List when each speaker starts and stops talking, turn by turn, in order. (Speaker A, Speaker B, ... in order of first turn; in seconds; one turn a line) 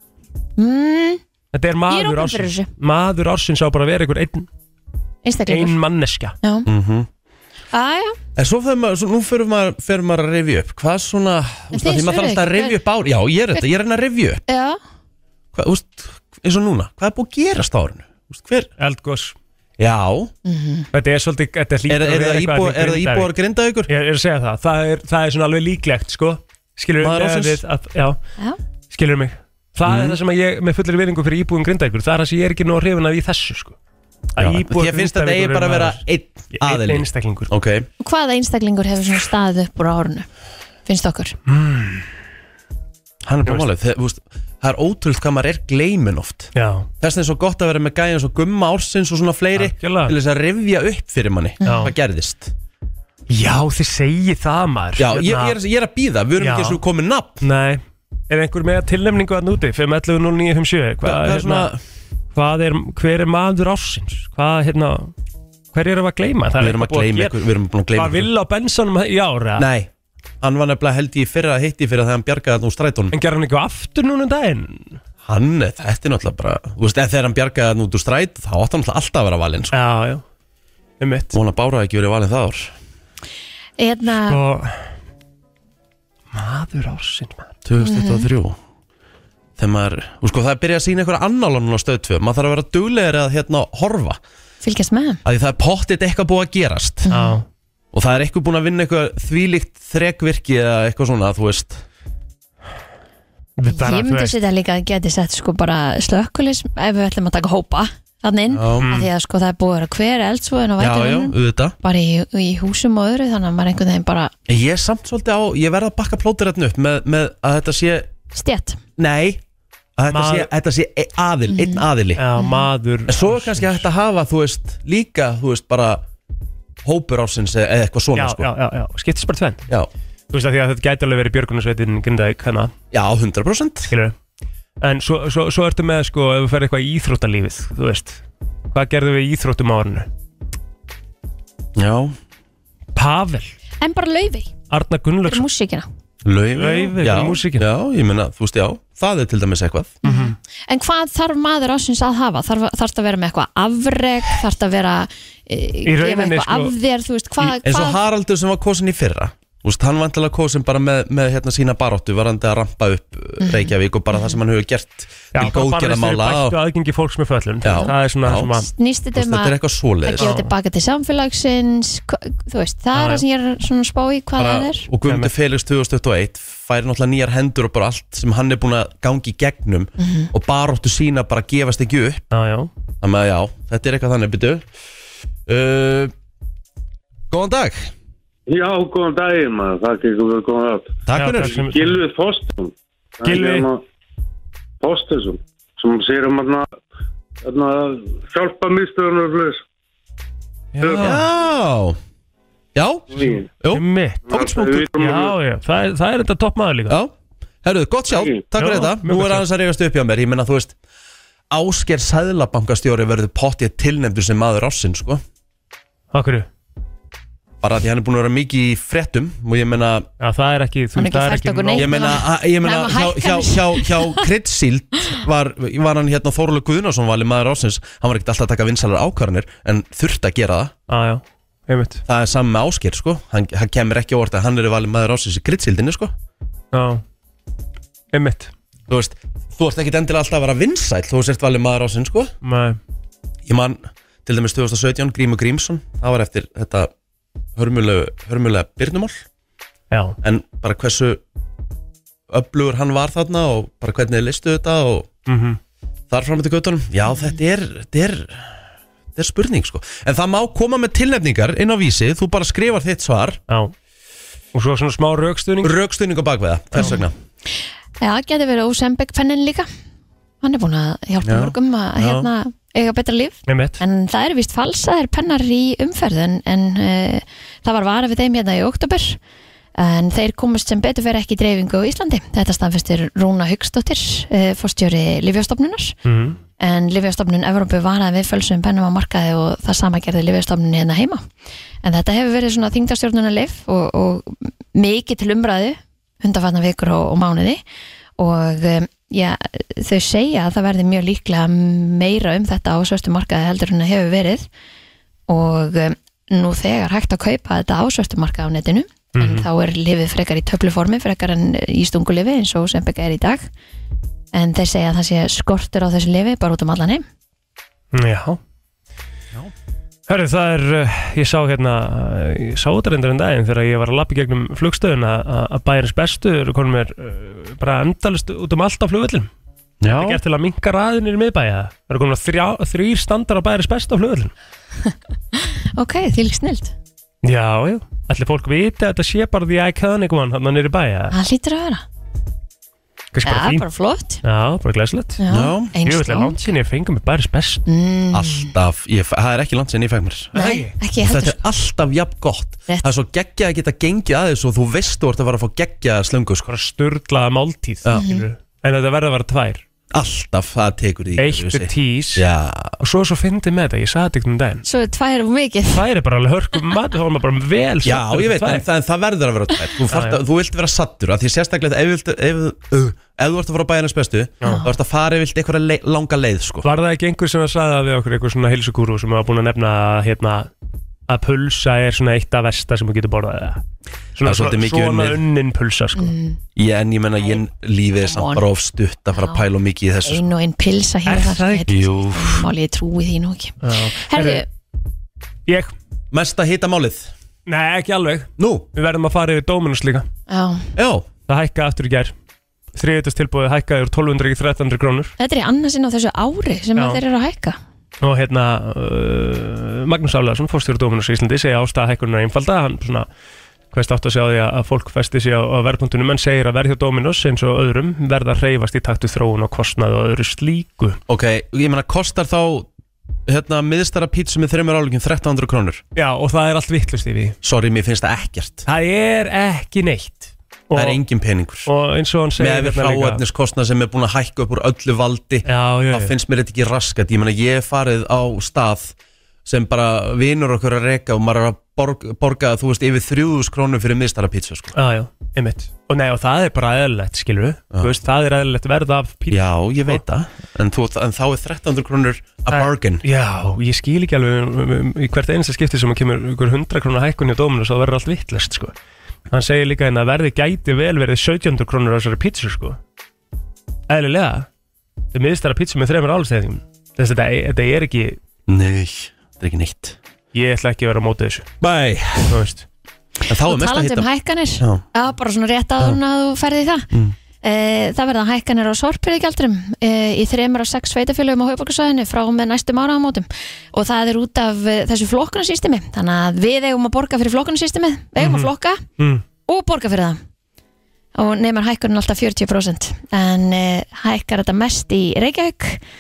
Speaker A: 0.6-1.2
Speaker B: 1.5-4.5
Speaker A: 1.9-2.7
Speaker A: 5.2-5.8
Speaker B: 5.5-6.3
Speaker A: 6.4-6.7
Speaker C: 6.7-7.1
Speaker A: 7.7-8.2
Speaker C: 8.4-14.4
Speaker A: 11.7-12.8
Speaker A: 14.5-14.8
Speaker C: 15.5-18.7
Speaker B: 18.8-19.4
Speaker C: 19.8-20.3
Speaker A: 20.4-20.9
Speaker B: 20.9-23.3
Speaker C: 21.9-23.9
Speaker B: 23.9-28.2
Speaker C: 27.0-27.6
Speaker B: 28.9-33.8
Speaker C: 29.9-30.2
Speaker B: 34.4-37.5
Speaker C: 34.4-37.9
Speaker A: 38.0-40.3
Speaker A: 40.9-41.4
Speaker B: 41.5-42.1
Speaker C: 43.2-52.5
Speaker B: 46.5-46.9
Speaker B: 49.5-50.2
Speaker A: 51.6-51.9
Speaker B: 51.6-51.9
Speaker B: 53.3-55.6
Speaker C: 55.0-57.4
Speaker B: 56.4-56.8
Speaker B: 57.4-61.7
Speaker C: 61.0-61.8
Speaker B: 62.3-65.1
Speaker B: 65.7-67.3
Speaker C: 66.6-68.3
Speaker B: 67.9-69.7
Speaker C: 69.6-69.9
Speaker C: 70.4-73.1
Speaker B: 73.1-75.0
Speaker C: 75.2-79.8
Speaker B: 79.7-80.2
Speaker B: 81.0-81.3
Speaker C: 81.3-82.7
Speaker A: 83.8-84.4
Speaker B: 84.3-84.7
Speaker B: 86.3-87.5
Speaker C: 87.7-88.6
Speaker A: 87.8-88.3
Speaker C: 89.6-94.2
Speaker A: 94.6-95.2
Speaker C: 95.2-97.1
Speaker A: 97.1-97.4
Speaker B: 97.1-97.4
Speaker C: 97.9-101.8
Speaker B: 103.6-104.4
Speaker A: 103.7-114.3
Speaker C: 108.5-108.9
Speaker B: 108.8-109.1
Speaker C: 110.8-111.8
Speaker C: 114.5-118.1
Speaker A: 118.3-118.8
Speaker C: 119.0-119.4
Speaker C: 120.0-122.2
Speaker B: 120.1-120.5
Speaker A: 121.5-121.8
Speaker B: 122.2-123.8
Speaker A: 122.4-122.7
Speaker C: 123.1-126.0
Speaker C: 126.8-128.5
Speaker B: 128.2-129.6
Speaker B: 130.3-132.7
Speaker C: 132.9-133.9
Speaker B: 133.9-134.2
Speaker B: 134.8-140.1
Speaker C: 141.8-142.2
Speaker B: 142.9-143.6
Speaker A: 143.8-144.5
Speaker B: 144.7-145.4
Speaker A: 145.3-145.9
Speaker C: 146.2-150.0
Speaker B: 146.6-147.7
Speaker B: 150.0-150.3
Speaker A: 150.0-158.0
Speaker B: 155.9-156.7
Speaker C: 157.4-166.6
Speaker A: 163.4-164.3
Speaker B: 165.3-168.7
Speaker C: 167.6-168.5
Speaker A: 168.5-174.9
Speaker C: 169.2-170.4
Speaker B: 170.2-170.5
Speaker B: 172.9-173.2
Speaker C: 174.4-182.2
Speaker B: 175.1-175.3
Speaker A: 180.0-180.3
Speaker B: 182.3-182.7
Speaker C: 183.0-184.7
Speaker C: 185.5-186.1
Speaker C: 187.3-187.9
Speaker D: 188.5-193.8
Speaker C: 191.1-191.6
Speaker B: 191.1-192.0
Speaker B: 193.2-193.7
Speaker D: 194.8-196.7
Speaker D: 197.4-199.6
Speaker B: 200.7-201.2
Speaker C: 200.8-202.0
Speaker D: 200.8-201.1
Speaker C: 202.8-204.6
Speaker D: 203.1-203.5
Speaker B: 203.7-207.0
Speaker D: 204.3-205.4
Speaker C: 206.9-210.7
Speaker D: 208.1-208.4
Speaker B: 208.6-209.4
Speaker C: 211.5-215.2
Speaker B: 216.1-216.5
Speaker C: 217.6-220.1
Speaker B: 220.2-222.1
Speaker A: 221.0-224.2
Speaker C: 221.8-230.7
Speaker B: 230.9-232.0
Speaker C: 232.1-236.1
Speaker B: 236.7-237.0
Speaker B: 238.1-238.5
Speaker C: 238.9-242.3
Speaker B: 242.4-242.8
Speaker C: 243.5-246.9
Speaker C: 247.6-249.2
Speaker B: 249.9-250.2
Speaker C: 250.2-251.2
Speaker C: 252.3-255.1
Speaker B: 255.3-255.6
Speaker C: 256.1-258.5
Speaker C: 259.2-263.4
Speaker B: 263.5-263.7
Speaker B: 264.5-265.8
Speaker C: 265.6-267.1
Speaker A: 268.0-269.7
Speaker A: 270.4-279.2
Speaker C: 271.2-272.3
Speaker B: 273.5-273.8
Speaker A: 279.8-286.0
Speaker B: 286.1-286.4
Speaker A: 286.6-291.2
Speaker A: 291.8-297.6
Speaker A: 298.2-304.5
Speaker A: 305.3-313.5
Speaker B: 309.2-309.5
Speaker A: 314.3-317.1
Speaker B: 317.9-318.4
Speaker B: 320.1-329.3
Speaker C: 329.8-330.2
Speaker B: 329.9-334.3
Speaker A: 334.9-336.7
Speaker B: 337.2-341.1
Speaker A: 341.1-341.9
Speaker B: 343.1-343.6
Speaker A: 343.2-344.2
Speaker B: 344.2-345.2
Speaker A: 345.2-346.5
Speaker C: 345.3-345.7
Speaker B: 345.8-347.6
Speaker A: 347.7-348.5
Speaker C: 348.1-350.4
Speaker A: 350.4-351.4
Speaker B: 350.4-350.7
Speaker C: 351.0-356.5
Speaker B: 356.5-359.6
Speaker A: 357.9-358.2
Speaker C: 359.9-362.8
Speaker B: 361.2-362.2
Speaker B: 362.8-364.6
Speaker A: 364.6-365.8
Speaker B: 365.7-368.6
Speaker C: 367.8-376.7
Speaker B: 369.9-370.2
Speaker B: 376.6-380.5
Speaker B: 381.1-383.6
Speaker B: 384.2-386.1
Speaker C: 384.2-385.2
Speaker A: 386.0-386.4
Speaker C: 386.6-390.3
Speaker A: 388.0-388.4
Speaker A: 389.1-389.4
Speaker A: 390.1-394.4
Speaker B: 391.1-391.8
Speaker C: 391.7-392.5
Speaker B: 393.6-394.4
Speaker B: 395.5-395.7
Speaker C: 396.1-397.1
Speaker B: 397.5-400.1
Speaker C: 398.4-398.7
Speaker A: 400.3-400.7
Speaker C: 400.8-401.1
Speaker B: 401.3-402.1
Speaker B: 402.7-405.1
Speaker A: 405.2-407.6
Speaker B: 408.0-413.1
Speaker B: 413.7-421.0
Speaker C: 421.1-422.7
Speaker C: 423.3-425.8
Speaker B: 425.9-427.4
Speaker C: 427.4-428.6
Speaker B: 428.7-431.0
Speaker C: 430.7-431.7
Speaker B: 431.6-433.2
Speaker C: 432.4-444.7
Speaker B: 435.5-436.1
Speaker B: 444.7-450.0
Speaker C: 449.3-453.1
Speaker B: 452.5-458.7
Speaker B: 459.3-462.8
Speaker B: 463.9-464.5
Speaker B: 465.1-468.2
Speaker C: 468.5-470.0
Speaker B: 470.3-471.5
Speaker C: 471.6-472.4
Speaker B: 472.3-472.6
Speaker C: 473.3-474.1
Speaker A: 473.4-476.9
Speaker C: 474.6-474.9
Speaker A: 477.4-488.8
Speaker B: 488.2-489.2
Speaker A: 489.5-490.2
Speaker A: 491.1-495.8